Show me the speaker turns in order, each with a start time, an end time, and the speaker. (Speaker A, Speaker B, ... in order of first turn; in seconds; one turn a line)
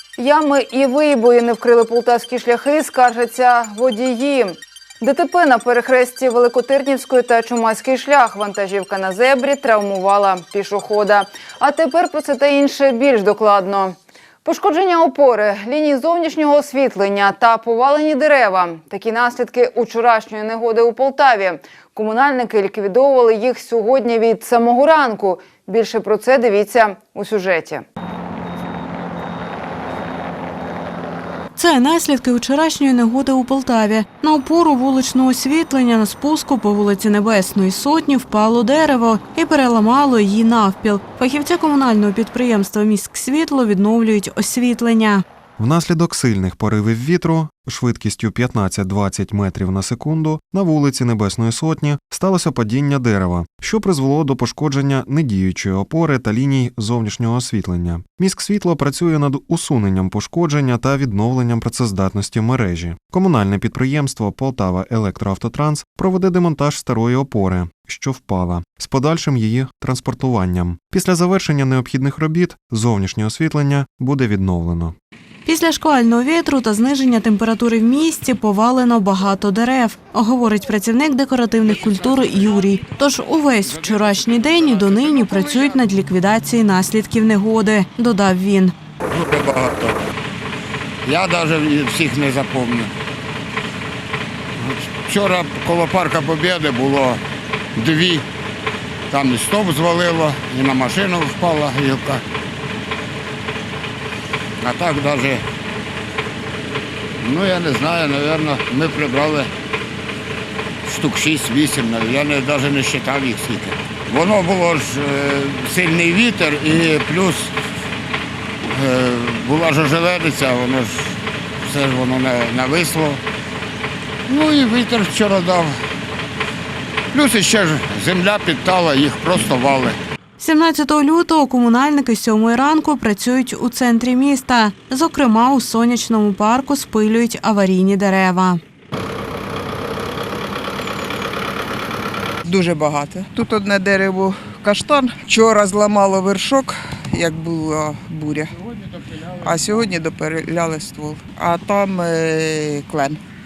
Speaker A: 0.2-27.8
Speaker B: 31.6-45.2
Speaker C: 45.6-74.9
Speaker B: 75.5-88.7
Speaker D: 84.3-85.7
Speaker D: 89.1-90.0
Speaker D: 91.0-92.9
Speaker D: 94.6-97.2
Speaker D: 97.8-98.2
Speaker D: 99.1-102.2
Speaker D: 104.6-105.4
Speaker D: 107.2-109.5
Speaker D: 110.8-117.5
Speaker D: 118.7-123.2
Speaker D: 124.3-125.7
Speaker D: 127.1-130.0
Speaker B: 130.4-138.6
Speaker E: 142.4-148.5
Speaker E: 149.4-153.2